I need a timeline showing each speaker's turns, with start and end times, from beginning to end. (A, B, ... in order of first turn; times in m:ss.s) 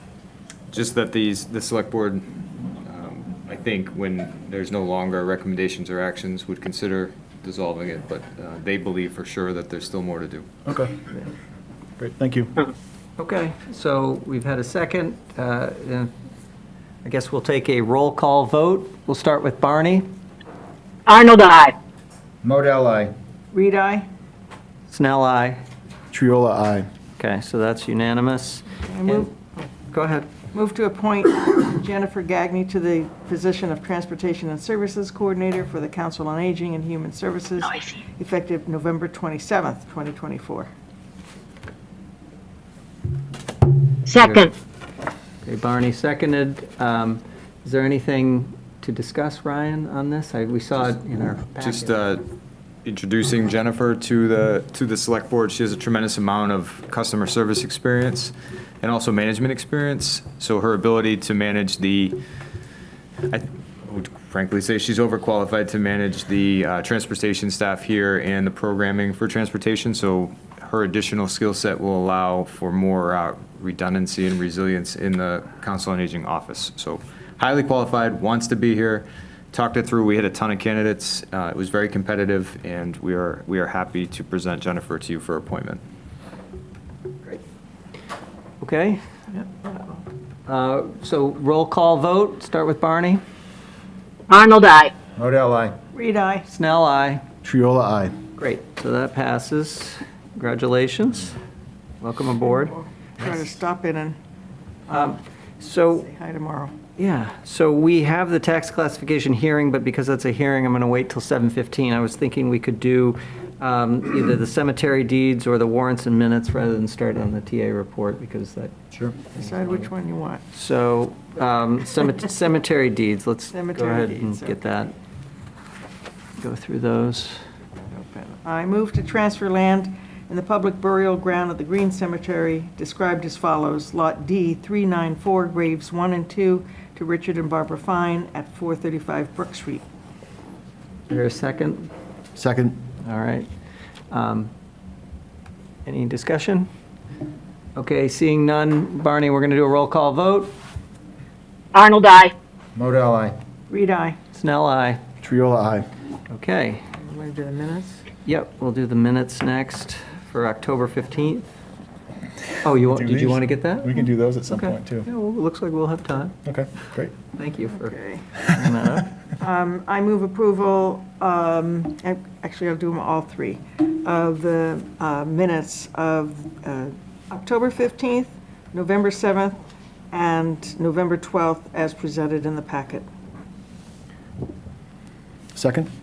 0:00.7-0:02.3 A
0:02.8-0:10.5 A
0:10.7-0:11.0 B
0:12.0-0:12.6 B
0:13.2-0:16.1 C
0:17.0-0:20.1 C
0:21.1-0:21.8 D
0:22.4-0:23.1 E
0:23.5-0:24.1 F
0:24.9-0:25.6 C
0:26.1-0:26.9 B
0:27.2-0:29.3 C
0:28.9-0:29.7 F
0:29.9-0:30.3 C
0:30.5-0:40.7 F
0:44.1-0:44.5 D
0:44.1-0:44.5 C
0:45.4-0:51.9 C
0:51.6-0:52.2 A
0:52.8-1:02.2 A
1:03.3-1:25.8 A
1:28.6-1:29.0 C
1:29.3-1:30.0 F
1:30.5-1:33.2 C
1:34.3-1:35.0 D
1:35.2-1:35.8 E
1:35.9-1:36.5 F
1:36.5-1:37.2 C
1:37.4-1:38.2 B
1:38.4-1:41.3 C
1:42.0-1:42.8 C
1:42.7-1:44.2 F
1:44.9-1:46.1 C
1:46.0-1:46.8 F
1:47.0-1:58.7 C
1:59.4-1:59.8 C
1:59.4-2:00.4 F
2:00.5-2:04.9 C
2:03.5-2:04.6 F
2:06.4-2:07.4 C
2:07.9-2:19.8 F
2:21.1-2:21.9 C
2:22.4-2:22.8 B
2:23.0-2:23.5 C
2:24.1-2:24.5 C
2:25.9-2:26.7 C
2:27.8-2:30.5 C
2:31.7-2:32.3 D
2:32.8-2:33.4 E
2:33.7-2:34.2 F
2:34.3-2:35.0 C
2:35.2-2:35.9 B
2:36.3-2:36.8 C
2:36.9-2:38.1 F
2:38.2-2:41.5 C
2:42.6-2:44.0 C
2:42.9-2:45.1 B
2:44.5-2:46.4 C
2:46.5-2:47.1 B
2:47.2-2:49.1 C
2:47.8-2:48.2 F
2:49.4-2:59.6 F
3:00.1-3:03.1 F
3:05.6-3:05.9 B